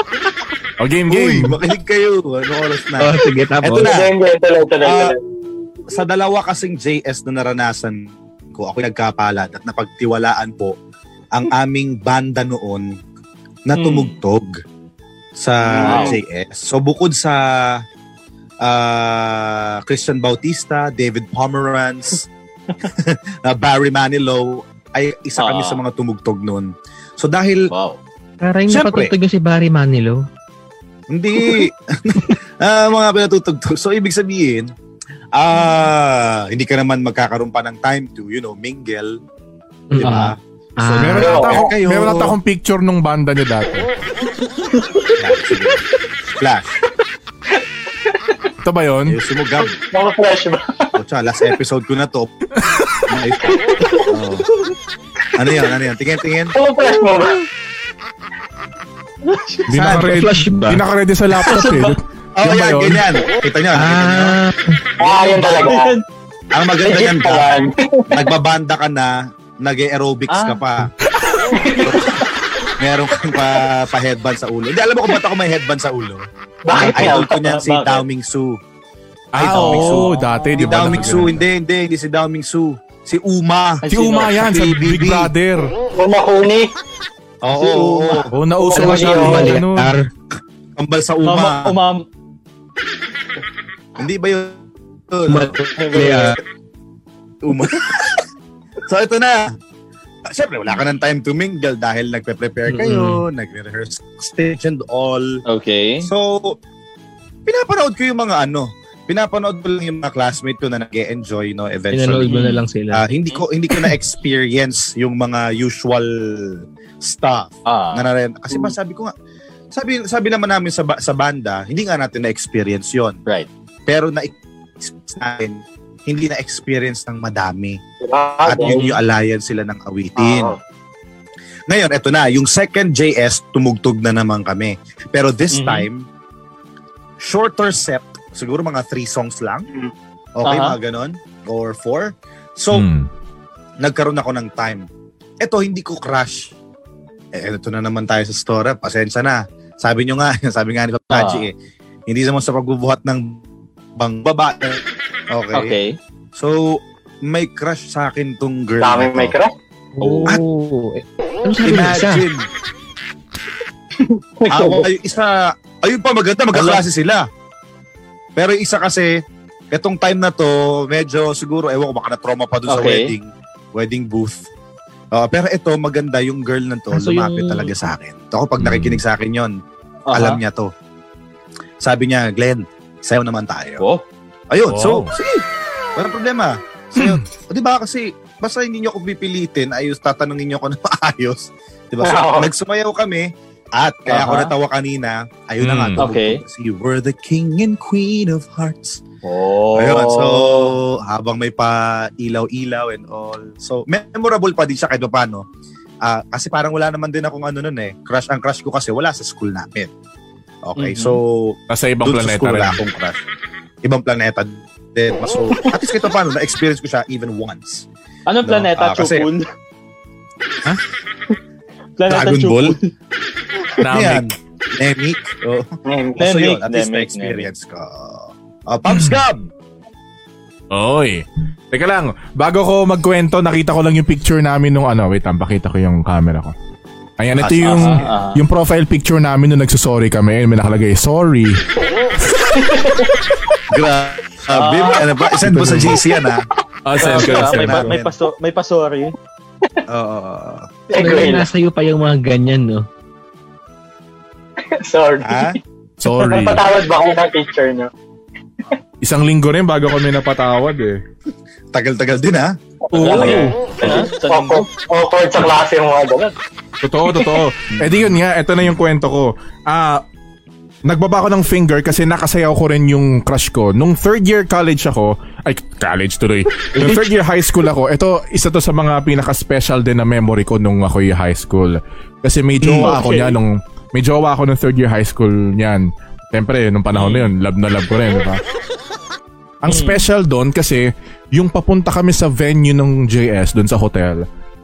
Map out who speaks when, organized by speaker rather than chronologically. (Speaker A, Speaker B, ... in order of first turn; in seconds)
Speaker A: 0.8-1.6, 41.0-43.9, 48.6-49.2, 59.7-63.0, 79.3-81.4, 83.9-85.7, 88.3-89.9, 142.7-143.1, 178.6-179.0, 184.7-185.1, 187.0-187.2, 195.6-196.0, 211.7-212.8, 223.8-224.3, 228.9-229.1, 230.7-236.5, 237.2-241.6, 246.8-247.9, 256.0-256.6, 259.0-261.0, 262.9-263.5, 266.8-270.0, 270.9-288.4, 289.6-294.2
Speaker B: 1.1-4.1, 4.8-5.1, 5.9-8.0, 8.6-10.7, 11.3-12.9, 13.7-14.6, 15.3-17.8, 18.6-22.3, 22.8-27.7, 28.7-29.1, 31.1-34.7, 35.3-39.2, 40.0-42.3, 45.1-46.7, 49.1-49.7, 50.9-52.3, 53.0-54.5, 55.3-56.5, 59.7-60.2, 62.4-64.4, 66.5-67.5, 68.1-70.9, 71.8-72.2, 72.8-78.6, 79.4-83.8, 84.4-85.3, 87.4-88.3, 90.8-91.7, 94.0-95.6, 97.4-98.2, 98.8-99.5, 100.3-105.4, 106.0-106.6, 107.5-112.4, 112.9-119.1, 119.7-123.2, 123.9-127.8, 128.4-130.5, 131.7-136.1, 137.2-139.7, 140.3-142.9, 143.8-144.9, 145.4-146.5, 147.3-151.5, 152.1-153.4, 154.0-155.7, 156.3-159.3, 161.6-162.5, 164.5-167.3, 168.3-174.4, 175.1-179.5, 180.1-180.7, 181.8-183.8, 184.5-199.0, 199.7-205.4, 206.0-209.9, 210.6-213.2, 213.8-217.9, 218.4-219.3, 222.1-222.8, 223.8-229.5, 237.4-238.1, 243.7-246.4, 247.0-248.1, 249.9-250.7, 255.2-255.6, 261.7-262.5, 267.7-268.1, 282.6-282.9
Speaker C: 3.0-3.9, 28.4-30.2, 39.9-41.4, 60.0-60.8, 63.7-64.8, 88.7-90.1, 95.3-96.4, 102.7-103.2, 111.9-113.0, 160.0-162.2, 176.9-177.7, 245.5-245.9, 250.9-252.8
Speaker D: 3.8-5.2, 41.2-41.7, 49.9-50.9, 56.5-57.4, 61.5-61.8, 65.0-66.0, 66.8-68.2, 71.5-72.0, 76.6-77.3, 85.9-86.7, 88.6-89.6, 128.0-128.8, 130.2-130.6, 158.8-159.5, 164.0-164.9, 192.0-192.5, 225.8-226.2, 242.6-243.1, 250.9-251.5, 254.7-255.6, 256.1-257.9, 262.9-266.3, 267.1-267.4
Speaker E: 13.7-14.2, 15.6-16.2, 25.4-25.8, 27.7-28.0, 59.2-59.7, 61.5-61.9, 65.0-66.0, 70.3-70.6, 76.7-78.0, 79.5-81.3, 83.8-84.4, 87.5-88.2, 91.2-92.0, 95.8-96.3, 105.5-106.1, 112.3-112.6, 117.7-118.1, 128.6-129.0, 135.5-135.9, 140.4-140.8, 151.1-151.5, 155.5-155.9, 160.0-160.4, 166.5-166.8, 172.7-173.1, 180.1-180.4, 194.1-194.5, 196.0-196.4, 199.2-200.7, 210.8-211.2, 218.3-219.5, 222.0-222.9, 226.2-227.5, 237.6-238.4, 244.5-245.1, 246.9-249.1, 263.0-264.7, 282.8-283.4, 286.9-287.3, 289.6-290.1